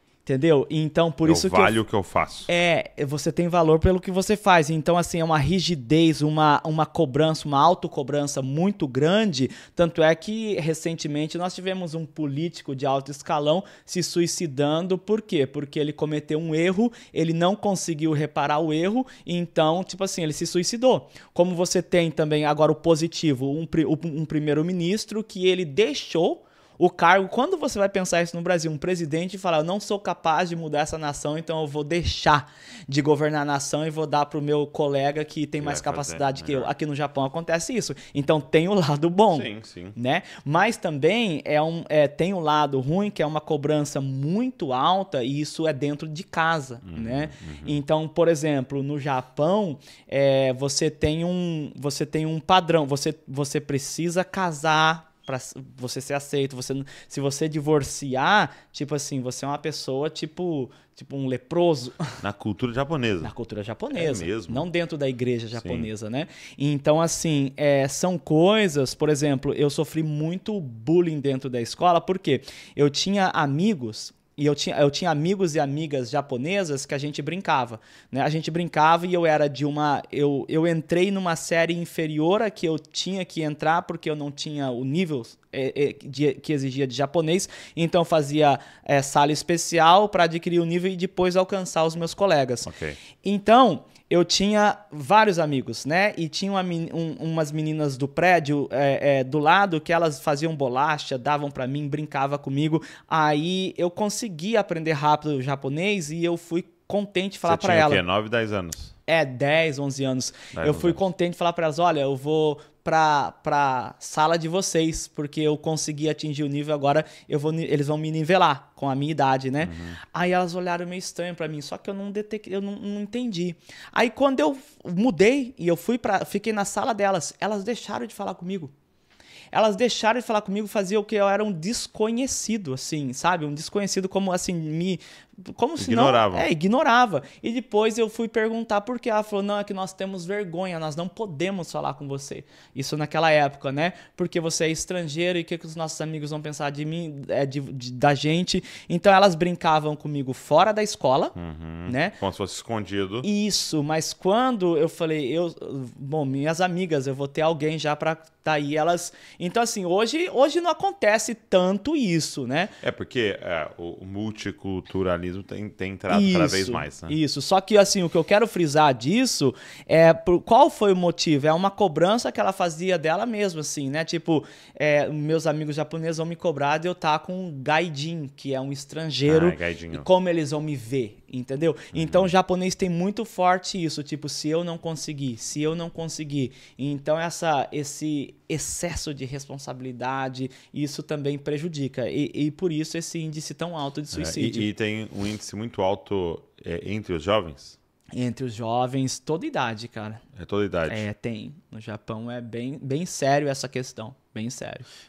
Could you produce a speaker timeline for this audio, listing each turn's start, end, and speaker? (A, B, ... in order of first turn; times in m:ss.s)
0:00.2-0:01.8 A
0:01.2-0:02.5 B
0:02.5-1:02.2 A
0:35.6-0:36.7 B
0:39.3-0:40.0 B
0:46.8-0:47.8 B
1:02.2-1:03.3 B
1:03.2-1:32.7 A
1:03.9-1:04.7 B
1:05.5-1:05.9 B
1:32.6-1:33.0 B
1:33.2-1:48.0 A
1:47.4-1:48.9 B
1:49.1-2:08.7 A
1:50.5-1:51.0 B
1:59.6-2:00.0 B
2:09.5-2:31.3 A
2:15.8-2:16.5 B
2:31.4-2:33.3 B
2:31.8-2:32.2 A
2:33.2-2:42.7 A
2:42.8-2:47.2 B
2:46.1-3:14.7 A
2:59.2-3:00.1 B
3:01.9-3:02.3 B
3:14.1-3:17.8 B
3:18.1-3:20.2 A
3:20.3-3:21.0 B
3:20.9-3:24.9 A